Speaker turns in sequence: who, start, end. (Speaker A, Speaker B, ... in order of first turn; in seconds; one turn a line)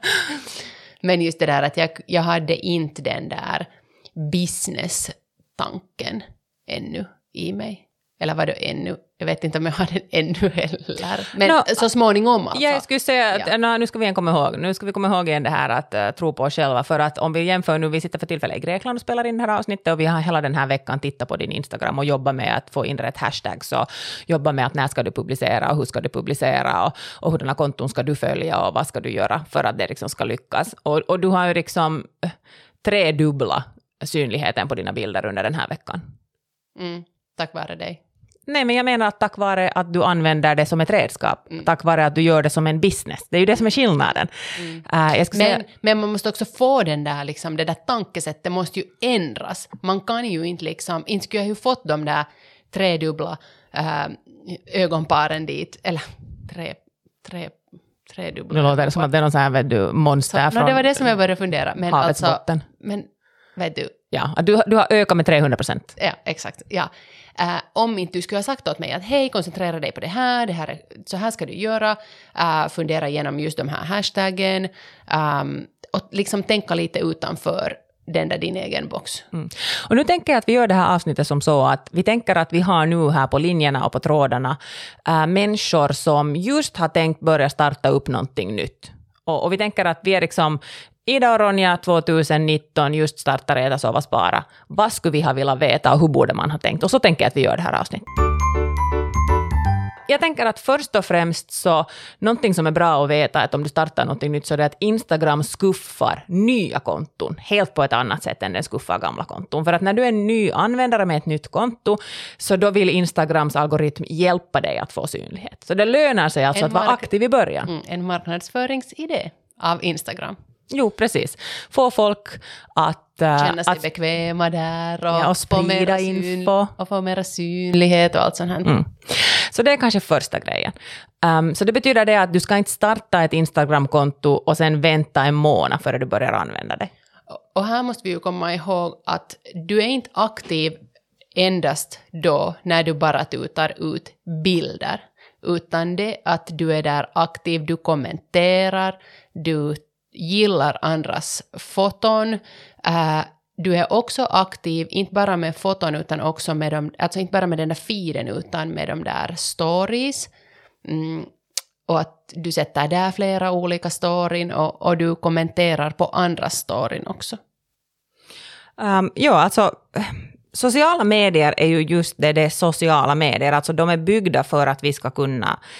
Speaker A: 1.0-12.8
Speaker B: 11.4-11.8
Speaker B: 12.5-36.0
Speaker A: 36.8-38.0
Speaker B: 38.5-44.3
Speaker B: 44.8-45.6
Speaker A: 45.3-57.5
Speaker A: 58.1-59.1
Speaker B: 58.5-61.1
Speaker A: 60.3-63.9
Speaker B: 61.9-62.6
Speaker B: 64.1-65.9
Speaker A: 66.0-79.2
Speaker B: 79.3-98.0
Speaker B: 100.1-117.7
Speaker A: 116.5-117.0
Speaker A: 117.7-120.3
Speaker B: 120.7-123.8
Speaker A: 123.3-128.8
Speaker B: 125.1-126.7
Speaker B: 128.7-136.9
Speaker A: 137.3-140.8
Speaker A: 141.3-160.3
Speaker A: 160.8-161.3
Speaker A: 161.9-167.4
Speaker B: 168.8-175.6